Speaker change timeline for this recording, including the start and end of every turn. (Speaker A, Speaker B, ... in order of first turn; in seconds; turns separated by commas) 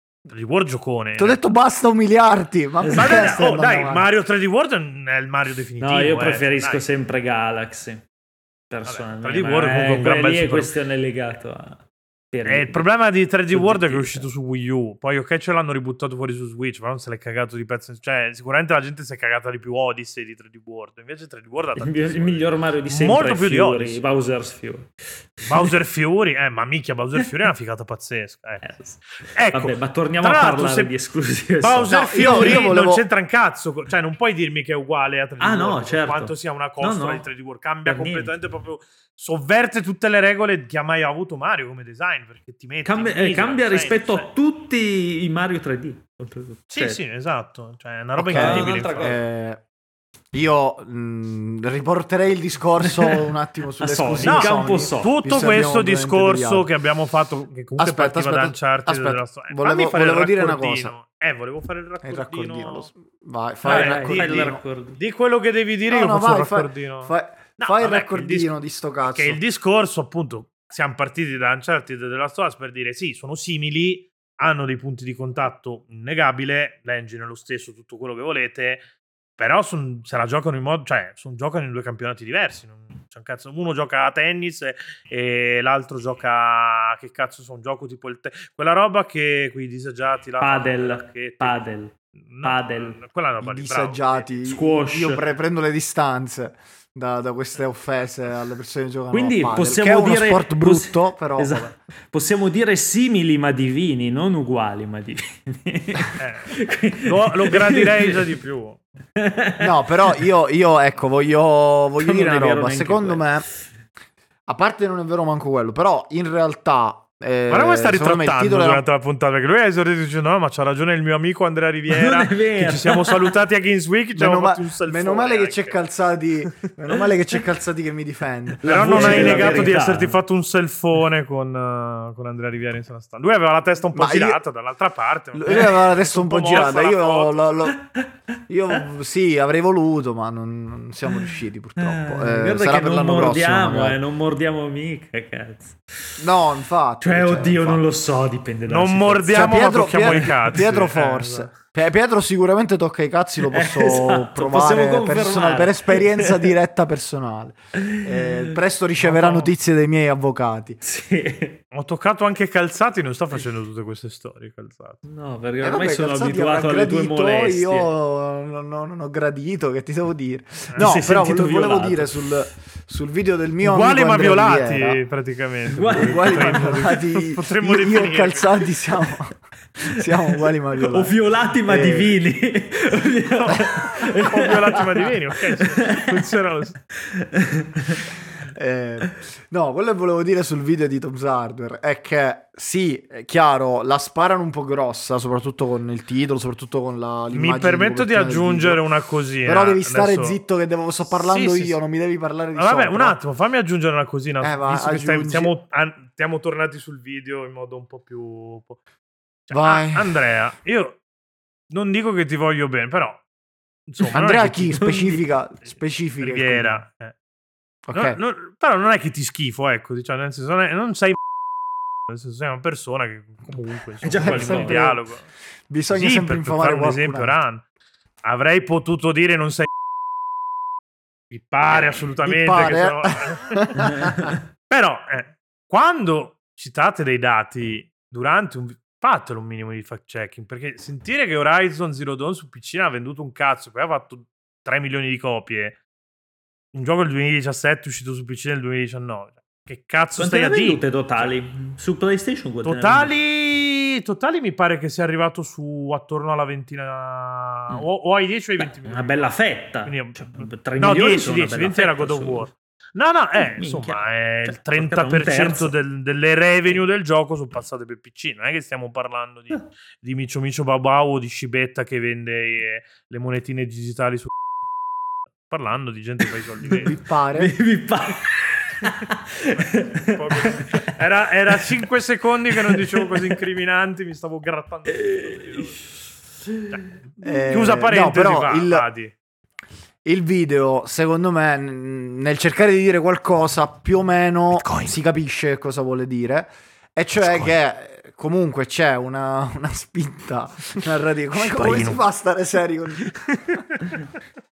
Speaker A: 0.3-1.4, Speaker B: 1.2-4.1, Speaker C: 2.8-3.3, Speaker A: 2.9-6.8, Speaker C: 5.8-8.1, Speaker C: 8.7-12.8, Speaker A: 8.8-10.7, Speaker A: 12.4-24.0, Speaker C: 13.5-14.3, Speaker C: 21.8-25.7, Speaker A: 25.4-28.7, Speaker C: 28.6-32.7, Speaker A: 29.2-30.9, Speaker A: 31.6-44.3, Speaker B: 31.9-33.0, Speaker C: 35.4-37.2, Speaker C: 37.8-38.3, Speaker C: 42.8-47.0, Speaker A: 46.7-49.1, Speaker B: 48.2-49.6, Speaker C: 48.3-49.2, Speaker B: 50.3-56.7, Speaker C: 52.8-55.1, Speaker A: 54.2-62.9, Speaker B: 57.8-60.9, Speaker B: 62.0-64.6, Speaker C: 63.6-65.0, Speaker A: 63.6-68.5, Speaker B: 65.9-69.4, Speaker A: 69.0-78.8, Speaker A: 79.4-91.6, Speaker C: 90.4-93.0, Speaker A: 92.2-94.3, Speaker B: 93.4-101.7, Speaker C: 94.5-95.2, Speaker C: 99.1-108.3, Speaker A: 106.2-108.8, Speaker C: 109.2-110.2, Speaker B: 109.6-113.5, Speaker C: 112.0-113.3, Speaker B: 114.5-118.8, Speaker A: 117.5-125.8, Speaker C: 121.9-123.3, Speaker B: 124.2-129.7, Speaker C: 128.6-130.2, Speaker A: 128.6-137.4, Speaker B: 133.9-134.4, Speaker B: 135.3-137.8, Speaker B: 138.5-144.0, Speaker C: 141.1-146.2, Speaker B: 146.2-147.8, Speaker C: 147.0-150.4, Speaker A: 148.7-151.5, Speaker B: 149.3-160.8, Speaker C: 153.4-156.5, Speaker C: 157.7-158.6, Speaker A: 159.0-159.5, Speaker C: 160.8-161.6, Speaker A: 161.7-165.0, Speaker C: 165.0-167.9, Speaker B: 165.6-175.0, Speaker A: 170.7-171.0, Speaker C: 170.8-172.2, Speaker A: 173.6-178.6, Speaker C: 175.7-176.9, Speaker B: 175.8-181.1, Speaker C: 179.8-186.2, Speaker B: 181.7-182.1, Speaker A: 183.4-186.8, Speaker C: 186.9-188.1, Speaker B: 188.5-198.8, Speaker A: 197.3-200.4, Speaker B: 199.4-203.2, Speaker A: 201.1-201.8, Speaker A: 202.6-208.8, Speaker B: 204.4-205.5, Speaker A: 209.5-211.0, Speaker B: 209.5-210.2, Speaker A: 211.7-213.2, Speaker A: 213.9-215.2, Speaker B: 214.0-216.8, Speaker A: 216.2-217.1, Speaker B: 217.8-218.2, Speaker A: 217.9-221.2, Speaker A: 222.1-225.2, Speaker C: 224.0-225.0, Speaker B: 224.2-225.0, Speaker B: 225.7-227.3, Speaker A: 225.9-227.6, Speaker A: 228.2-229.7, Speaker A: 231.3-233.8, Speaker B: 232.2-234.4, Speaker C: 233.8-234.4, Speaker A: 234.7-245.8, Speaker A: 246.7-251.3, Speaker C: 250.2-253.1, Speaker A: 252.6-274.3, Speaker C: 258.6-262.5, Speaker C: 263.4-265.7, Speaker A: 275.5-277.0, Speaker C: 276.7-281.0, Speaker B: 276.8-277.6, Speaker A: 279.5-286.0, Speaker C: 281.5-281.8, Speaker C: 282.5-283.4, Speaker C: 284.9-285.7, Speaker C: 286.4-286.9, Speaker A: 286.7-289.1, Speaker B: 287.2-288.9, Speaker B: 290.0-303.6, Speaker A: 294.6-294.9, Speaker A: 301.3-302.0, Speaker A: 303.5-304.0